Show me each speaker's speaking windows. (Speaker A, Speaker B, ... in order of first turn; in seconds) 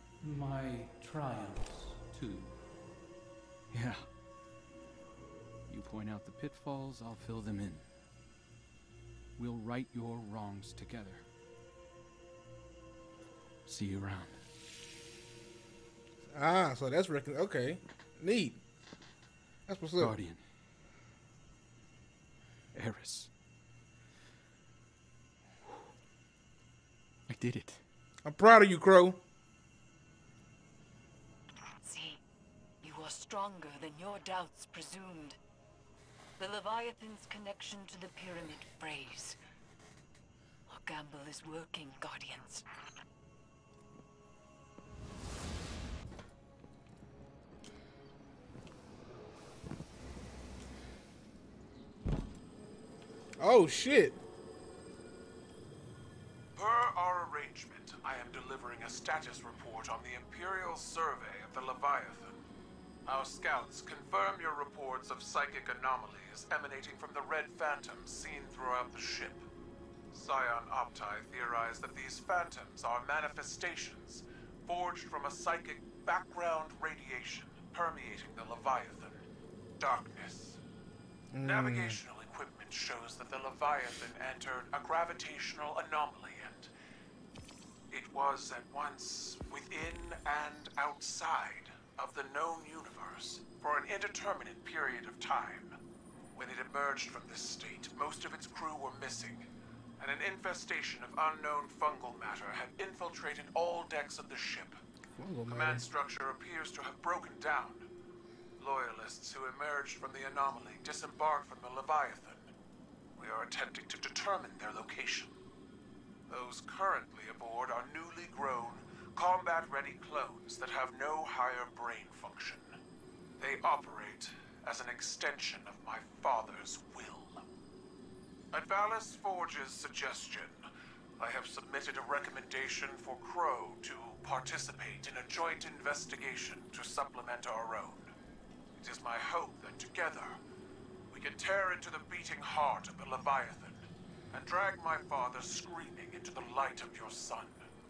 Speaker A: 0.2-2.5, 3.7-4.1, 5.7-7.8, 9.4-11.2, 13.7-14.4, 20.0-20.4, 22.7-23.3, 27.3-27.8
Speaker B: 16.3-18.6, 19.7-20.1, 28.2-29.2, 53.4-54.2, 81.3-82.0, 105.2-105.8
Speaker C: 31.8-32.2, 32.8-35.4, 36.4-39.4, 40.7-42.6
Speaker D: 56.5-62.4, 63.0-69.4, 70.1-79.2, 79.8-80.6, 81.4-86.7, 87.9-95.7, 96.3-99.5, 100.0-104.8, 105.5-107.8, 108.6-112.5, 113.2-115.3, 116.3-122.7, 123.4-127.5, 128.5-130.6, 131.2-138.1, 138.8-140.4, 141.1-147.6